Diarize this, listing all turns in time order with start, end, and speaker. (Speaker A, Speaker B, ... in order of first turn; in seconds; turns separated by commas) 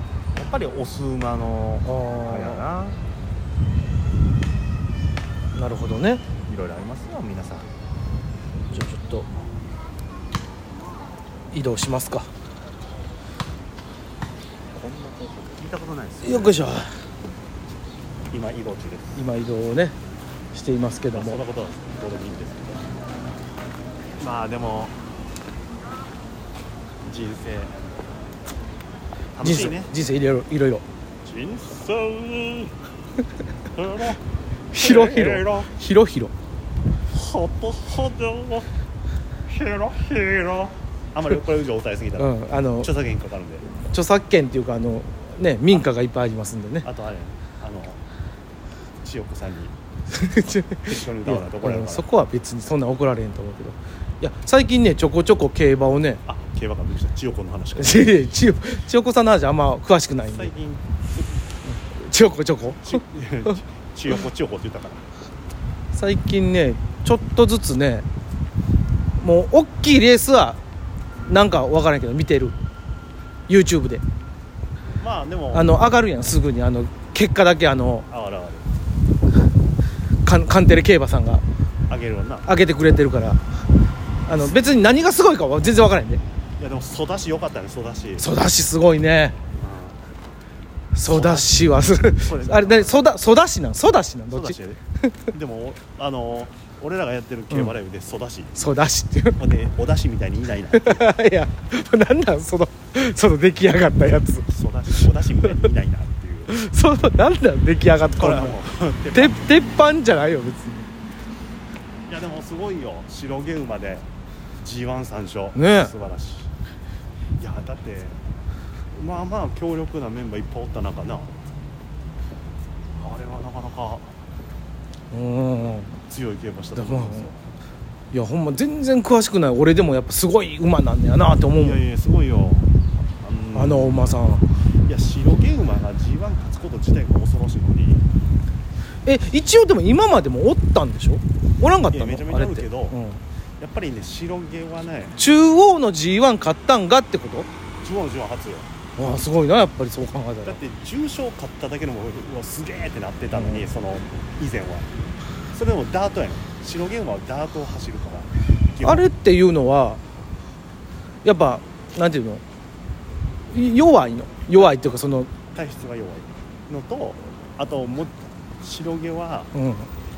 Speaker A: 0.3-3.0, Speaker B: 1.9-2.6, Speaker B: 5.5-6.2, Speaker A: 6.5-7.7, Speaker B: 8.7-9.3, Speaker B: 11.5-12.3, Speaker A: 14.7-16.8, Speaker B: 16.2-16.9, Speaker A: 18.3-19.2, Speaker B: 19.1-19.9, Speaker B: 20.5-21.4, Speaker A: 21.1-22.8, Speaker A: 24.2-25.0, Speaker A: 27.0-27.8, Speaker A: 29.3-29.9, Speaker B: 29.4-30.8, Speaker A: 31.2-32.8, Speaker A: 33.8-34.2, Speaker B: 34.7-36.3, Speaker A: 34.8-35.7, Speaker A: 37.1-38.7, Speaker A: 39.5-43.7, Speaker B: 42.2-42.9, Speaker B: 43.7-46.9, Speaker A: 46.8-48.0, Speaker A: 49.0-49.7, Speaker B: 50.1-56.2, Speaker A: 50.8-52.1, Speaker A: 56.2-58.3, Speaker B: 57.8-60.5, Speaker A: 60.2-61.5, Speaker B: 61.8-63.0, Speaker A: 62.8-65.1, Speaker B: 65.9-68.1, Speaker B: 69.2-70.6, Speaker B: 71.3-72.6, Speaker B: 73.5-74.0, Speaker A: 75.0-75.8, Speaker B: 75.5-78.1, Speaker A: 78.1-78.7, Speaker B: 80.2-81.4, Speaker A: 81.9-82.5, Speaker B: 82.5-83.4, Speaker B: 84.2-86.2, Speaker A: 86.6-88.3, Speaker B: 88.2-89.4, Speaker A: 89.6-90.0, Speaker B: 90.9-95.1, Speaker A: 91.0-93.2, Speaker A: 94.3-94.8, Speaker A: 95.3-98.7, Speaker B: 98.6-99.4, Speaker A: 99.4-101.1, Speaker B: 100.7-104.5, Speaker A: 104.5-106.5, Speaker B: 106.5-108.6, Speaker A: 108.2-109.5, Speaker B: 109.1-110.9, Speaker A: 112.1-114.1, Speaker A: 114.6-116.5, Speaker B: 115.5-115.9, Speaker A: 117.4-118.2, Speaker A: 118.9-121.3, Speaker A: 123.0-124.1, Speaker B: 125.1-125.9, Speaker A: 126.1-127.4, Speaker B: 126.8-127.3, Speaker B: 128.1-131.8, Speaker A: 131.5-134.1, Speaker B: 133.5-134.4, Speaker A: 134.8-138.1, Speaker B: 139.0-143.2, Speaker A: 141.9-143.0, Speaker A: 143.6-145.2, Speaker B: 145.2-147.5, Speaker A: 147.8-149.2, Speaker B: 149.0-150.6, Speaker A: 150.4-154.9, Speaker B: 153.3-153.7, Speaker A: 155.5-159.1, Speaker B: 158.8-160.0, Speaker B: 161.2-162.4, Speaker B: 163.5-165.3, Speaker A: 165.5-169.5, Speaker B: 169.5-169.9